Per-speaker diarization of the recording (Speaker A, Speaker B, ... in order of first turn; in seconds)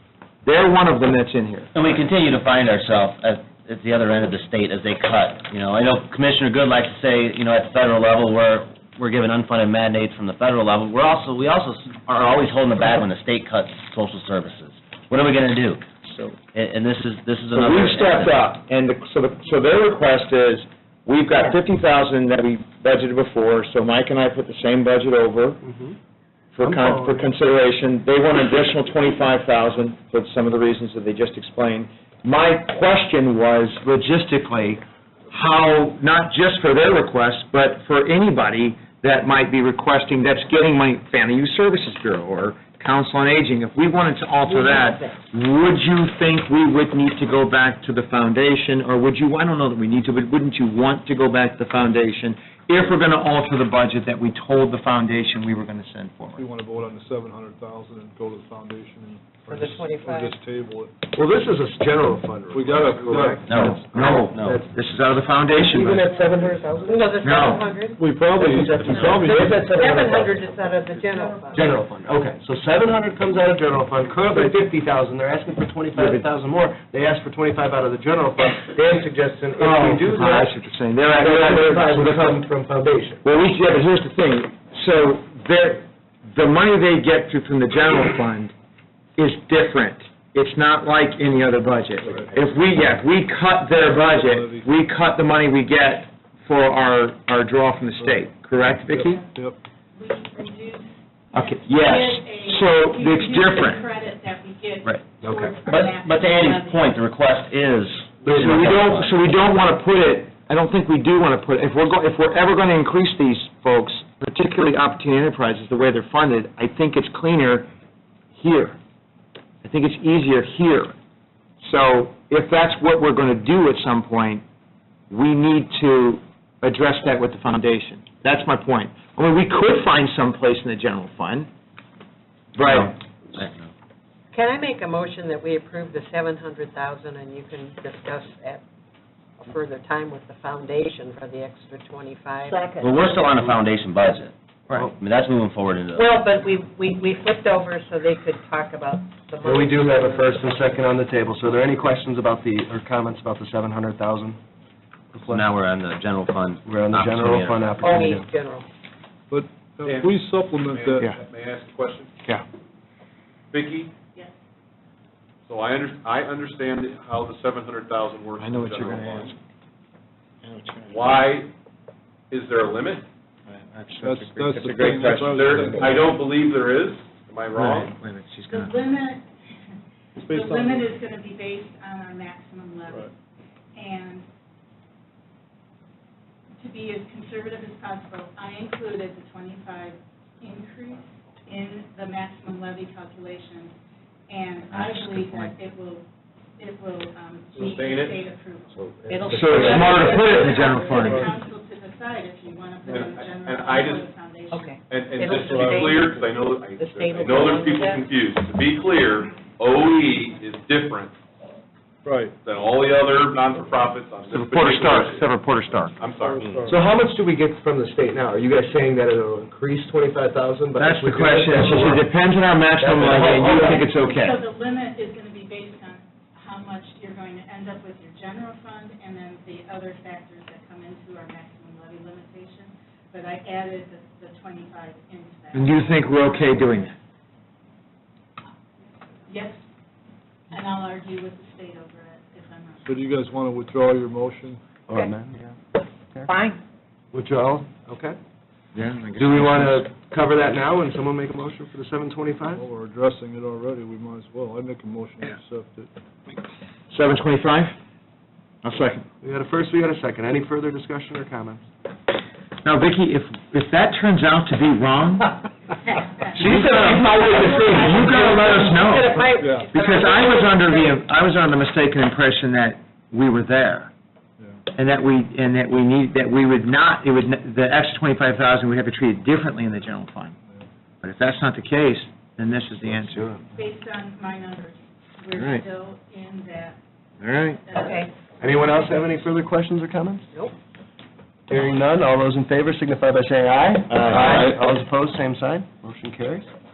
Speaker A: 0.4-1.7, 16.0-16.4, 17.5-25.6, 26.5-56.4, 63.5-66.1, 67.2-67.7, 76.0-76.2, 79.6-82.4, 83.2-88.5, 89.2-99.2, 101.3-103.9, 108.2-117.7, 118.3-118.8, 119.6-120.9, 121.6-124.4, 125.1-131.5, 132.5-133.0, 168.4-169.3, 170.4-171.3, 173.5-176.1, 177.5-178.7, 194.7-195.5, 199.3-201.3, 214.3-215.9, 220.8-224.4, 235.5-236.9, 248.7-249.8, 256.9-257.8, 258.6-259.1, 262.6-265.3, 266.3-273.9, 274.7-280.4, 281.0-283.4, 285.3-285.6, 287.2-287.6, 294.1-294.5
Speaker B: 1.7-15.8, 16.5-18.4, 63.5-64.5, 105.7-109.1, 132.7-133.7, 142.8-146.1, 155.3-157.7, 294.1-294.5
Speaker C: 25.6-25.9, 26.6-27.2, 61.1-64.7, 65.5-67.0, 68.4-70.4, 71.5-80.6, 81.1-83.2, 105.2-105.5, 149.4-154.4, 155.1-155.5, 156.6-158.3, 198.8-200.7, 216.6-222.1, 222.8-223.9, 244.9-245.6, 247.1-248.2, 249.2-252.7, 259.2-261.6, 266.3-268.8, 288.4-290.3, 291.5-296.5
Speaker D: 44.4-45.2, 59.5-60.4, 66.3-68.0, 68.7-71.7, 134.3-138.6, 139.4-142.8, 145.9-150.9, 157.8-158.7, 199.1-200.6, 204.5-208.1, 268.7-270.9, 287.7-288.1
Speaker E: 56.4-61.0, 62.5-64.1, 66.2-66.9, 67.9-69.9, 92.0-92.3, 93.9-94.7, 98.0-98.2, 98.9-99.6, 159.3-161.2, 174.0-176.2, 180.2-180.9, 200.8-201.4, 205.2-205.9, 212.0-212.3, 216.2-216.8, 242.8-244.6, 252.4-255.9, 269.2-269.7
Speaker F: 100.0-106.8, 178.5-179.3, 180.2-183.1, 183.8-184.2, 186.6-193.8, 194.3-196.1, 196.6-198.8, 199.6-204.8, 223.9-236.9, 239.2-239.6, 240.5-242.9, 266.8-268.8, 283.5-286.8, 287.3-288.1
Speaker G: 159.8-162.2, 163.5-163.9, 165.5-169.3, 170.9-171.5, 172.3-173.0, 175.1-177.9, 197.6-198.3, 202.8-204.1, 204.8-211.1, 212.4-215.3, 215.9-216.6